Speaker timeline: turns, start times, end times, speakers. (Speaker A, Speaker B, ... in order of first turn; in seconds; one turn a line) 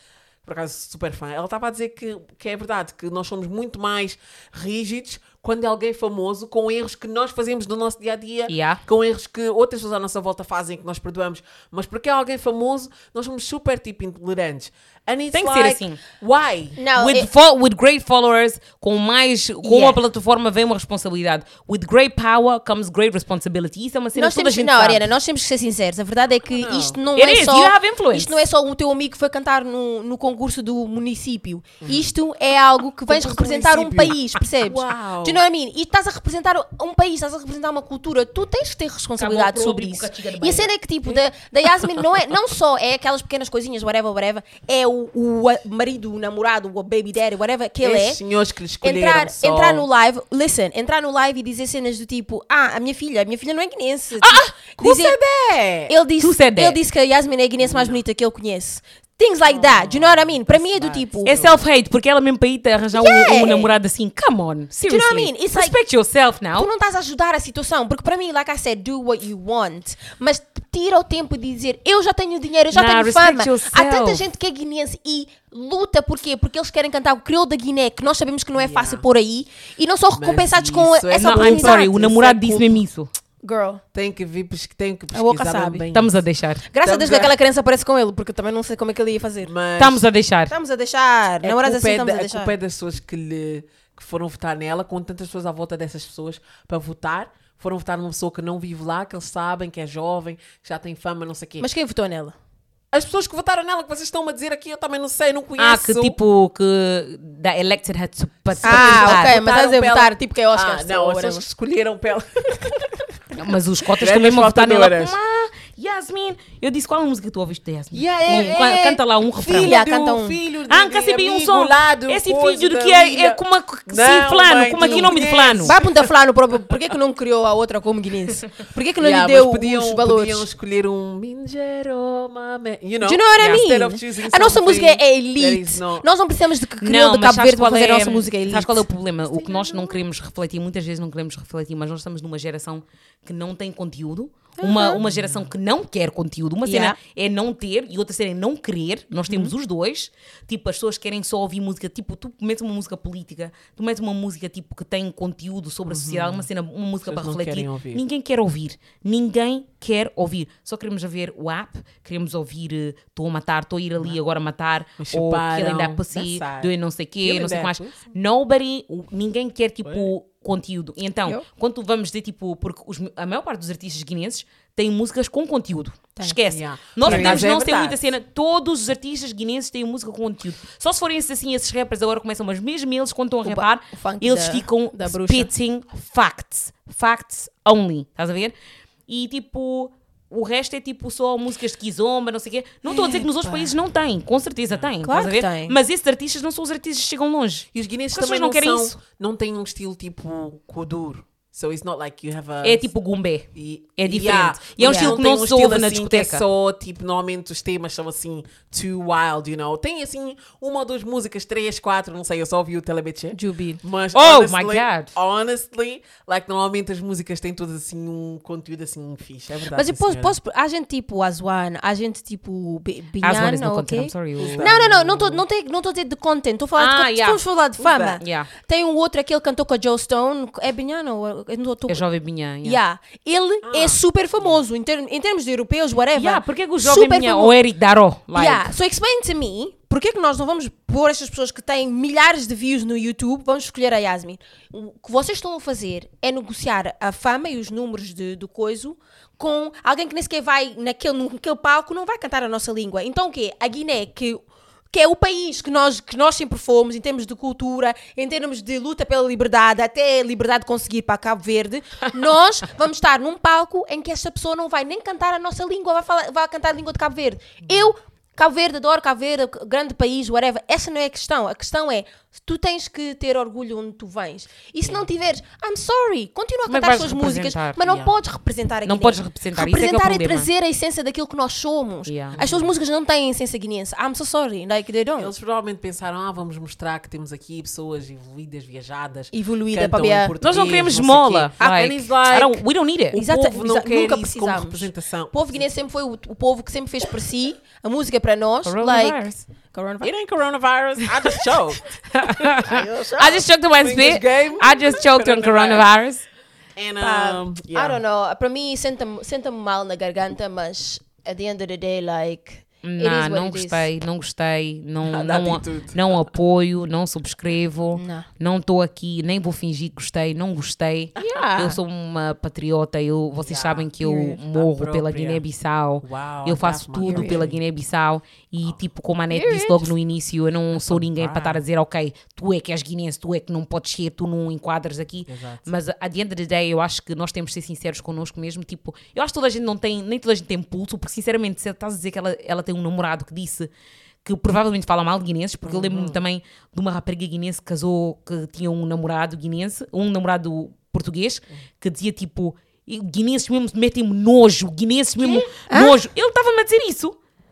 Speaker A: 0.4-16.8
Speaker B: 8.5-8.8
Speaker B: 15.3-16.0
Speaker C: 16.8-17.3
Speaker B: 16.9-25.1
Speaker C: 19.6-20.0
Speaker C: 24.1-48.2
Speaker A: 26.5-27.0
Speaker B: 27.1-28.4
Speaker A: 31.8-32.1
Speaker A: 33.1-35.4
Speaker B: 39.2-40.7
Speaker A: 47.8-49.9
Speaker C: 48.8-55.2
Speaker B: 54.2-54.5
Speaker A: 54.6-55.9
Speaker C: 55.9-61.5
Speaker B: 56.2-56.8
Speaker A: 57.6-58.0
Speaker A: 59.4-61.6
Speaker B: 61.2-66.7
Speaker C: 62.9-63.7
Speaker C: 64.8-65.8
Speaker C: 66.5-82.0
Speaker B: 72.7-74.2
Speaker A: 78.5-79.0
Speaker A: 80.2-82.8
Speaker B: 81.1-83.1
Speaker C: 83.4-83.8
Speaker A: 83.9-86.2
Speaker C: 85.1-85.8
Speaker B: 85.9-86.6
Speaker C: 86.7-89.5
Speaker A: 86.8-87.3
Speaker A: 89.4-90.0
Speaker B: 89.8-90.5
Speaker C: 90.5-92.5
Speaker A: 91.4-101.7
Speaker C: 101.6-102.3
Speaker A: 102.9-106.2
Speaker B: 105.6-109.4
Speaker A: 108.5-113.1
Speaker C: 108.6-111.4
Speaker B: 113.3-119.8
Speaker A: 114.0-115.2
Speaker A: 117.9-125.9
Speaker C: 118.3-118.6
Speaker C: 119.5-120.4
Speaker B: 120.7-125.8
Speaker C: 124.8-130.5
Speaker A: 129.0-136.1
Speaker C: 133.0-138.8
Speaker B: 133.4-133.6
Speaker B: 136.8-188.5
Speaker A: 139.3-140.0
Speaker C: 144.6-145.0
Speaker A: 145.0-145.5
Speaker C: 146.6-147.0
Speaker A: 155.9-156.5
Speaker A: 157.0-158.0
Speaker A: 165.0-166.7
Speaker A: 167.2-168.1
Speaker A: 169.8-170.1
Speaker A: 176.5-178.0
Speaker C: 177.0-177.4
Speaker C: 183.4-185.5
Speaker B: 189.1-199.0
Speaker C: 192.8-193.7
Speaker C: 195.0-195.8
Speaker A: 197.7-202.9
Speaker B: 202.6-206.4
Speaker A: 203.5-220.3
Speaker C: 204.8-205.2
Speaker C: 213.3-213.8
Speaker B: 214.1-215.1
Speaker C: 219.7-232.0
Speaker B: 223.2-224.7
Speaker A: 224.4-225.4
Speaker B: 226.8-227.4
Speaker A: 227.8-228.2
Speaker B: 228.2-228.5
Speaker B: 231.9-232.8
Speaker C: 232.6-237.6
Speaker A: 233.6-234.5
Speaker B: 236.1-238.7
Speaker C: 238.3-285.3
Speaker A: 274.8-275.1
Speaker B: 276.7-277.8
Speaker A: 277.8-278.1
Speaker B: 278.9-280.5
Speaker B: 282.1-282.4
Speaker A: 282.3-282.7
Speaker A: 285.2-295.6
Speaker C: 289.3-290.3
Speaker B: 290.4-293.2
Speaker C: 293.1-300.1
Speaker B: 298.6-299.4
Speaker A: 300.0-302.0
Speaker B: 302.1-306.2
Speaker C: 302.6-303.4
Speaker A: 303.8-305.9
Speaker A: 306.8-308.0
Speaker C: 307.0-313.9
Speaker B: 312.8-343.7
Speaker A: 315.0-316.0
Speaker C: 317.9-318.3
Speaker C: 321.2-321.8
Speaker A: 323.4-323.9
Speaker C: 324.0-324.4
Speaker A: 324.5-325.4
Speaker A: 326.0-327.6
Speaker C: 327.0-327.5
Speaker C: 329.3-329.9
Speaker A: 330.7-331.6
Speaker A: 335.3-335.7
Speaker B: 344.2-357.1
Speaker A: 345.6-346.2
Speaker A: 355.2-355.5
Speaker C: 355.7-356.0